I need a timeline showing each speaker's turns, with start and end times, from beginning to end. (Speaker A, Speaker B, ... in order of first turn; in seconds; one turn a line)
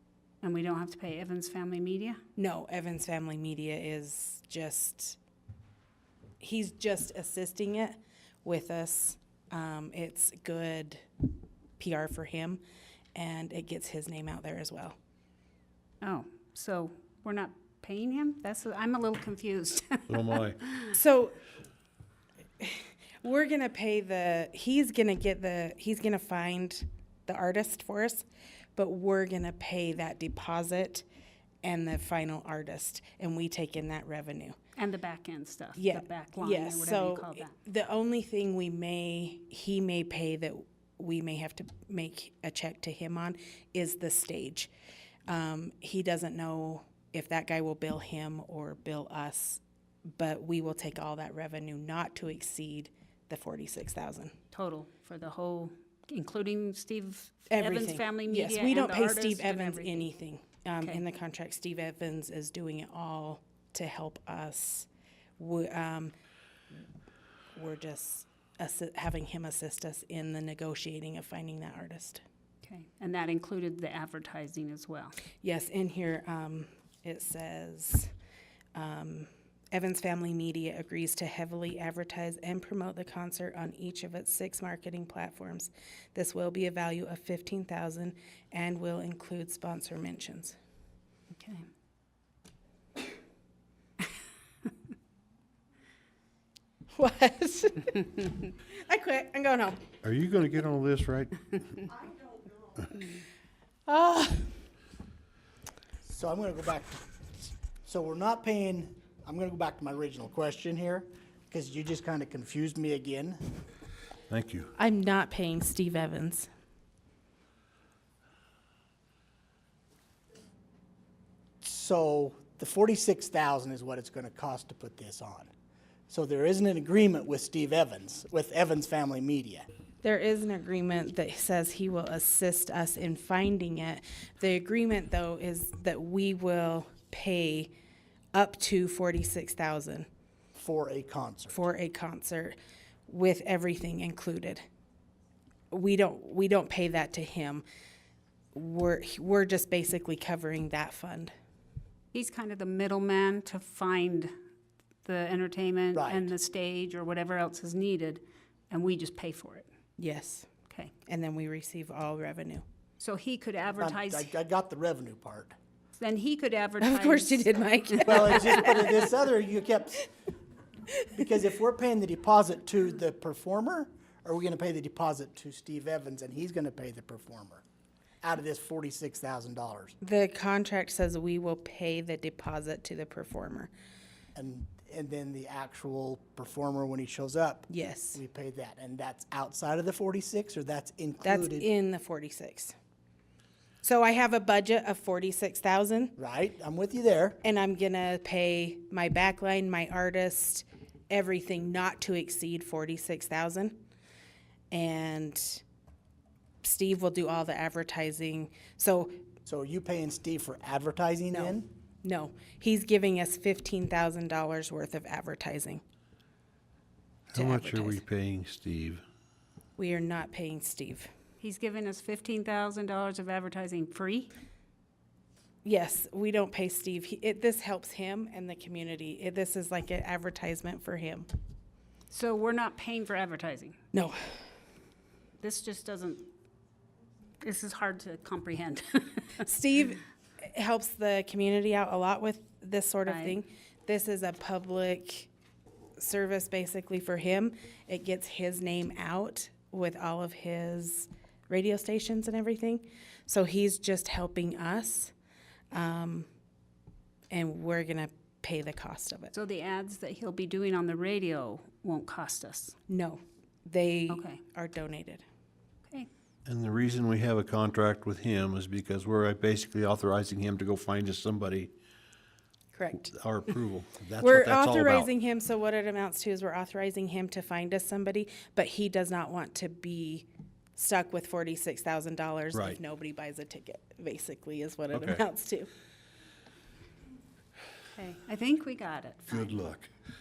Speaker A: 0.4-2.2
Speaker B: 2.4-5.2
Speaker B: 6.4-11.0
Speaker B: 11.8-12.6
Speaker B: 13.1-14.9
Speaker A: 16.0-20.9
Speaker C: 20.1-20.6
Speaker B: 20.9-21.4
Speaker B: 22.6-28.2
Speaker B: 28.8-31.0
Speaker B: 31.6-34.5
Speaker A: 34.8-37.5
Speaker B: 35.8-44.7
Speaker B: 45.3-49.6
Speaker B: 50.1-54.4
Speaker A: 54.5-60.1
Speaker B: 57.5-66.1
Speaker B: 67.5-72.2
Speaker A: 72.6-75.1
Speaker B: 75.4-78.1
Speaker B: 78.7-90.5
Speaker A: 91.3-91.6
Speaker B: 96.9-99.8
Speaker C: 100.0-101.9
Speaker B: 103.9-104.6
Speaker D: 106.0-113.4
Speaker C: 114.3-114.7
Speaker B: 114.8-116.5
Speaker D: 121.6-125.5
Speaker D: 126.1-129.7
Speaker B: 130.0-137.7
Speaker B: 138.3-140.1
Speaker D: 140.6-141.6
Speaker B: 141.5-142.6
Speaker B: 143.1-144.6
Speaker B: 145.7-147.6
Speaker B: 148.5-151.3
Speaker A: 152.1-154.3
Speaker A: 155.0-159.7
Speaker D: 155.9-156.3
Speaker B: 160.0-160.5
Speaker B: 161.1-162.6
Speaker A: 163.0-164.3
Speaker D: 163.8-165.5
Speaker A: 166.0-168.8
Speaker B: 166.8-169.0
Speaker D: 168.1-170.1
Speaker B: 170.9-171.2
Speaker D: 171.1-177.6
Speaker D: 178.2-179.9
Speaker B: 180.0-183.7
Speaker D: 184.3-191.7
Speaker B: 187.7-188.2
Speaker B: 191.2-192.7
Speaker B: 193.8-196.1
Speaker D: 196.2-197.4
Speaker B: 197.4-203.8
Speaker B: 204.7-205.6
Speaker B: 206.6-209.2
Speaker D: 209.5-211.7
Speaker B: 211.3-215.8
Speaker C: 217.3-219.0
Speaker B: 217.3-218.0
Speaker B: 219.8-221.1
Speaker A: 221.4-224.3
Speaker B: 225.6-231.3
Speaker A: 232.1-233.8
Speaker B: 233.9-234.4
Speaker A: 235.4-236.3
Speaker A: 237.4-239.5
Speaker B: 239.4-245.3
Speaker A: 243.1-243.4
Speaker B: 246.0-255.1
Speaker B: 255.7-256.3
Speaker B: 257.3-259.3
Speaker A: 259.3-262.7
Speaker B: 262.9-265.2
Speaker A: 264.1-264.4
Speaker C: 266.4-271.7
Speaker B: 272.7-273.1
Speaker C: 273.1-275.1
Speaker B: 274.2-285.7
Speaker C: 282.5-282.8
Speaker C: 284.9-285.2
Speaker A: 287.9-289.4
Speaker C: 289.3-289.9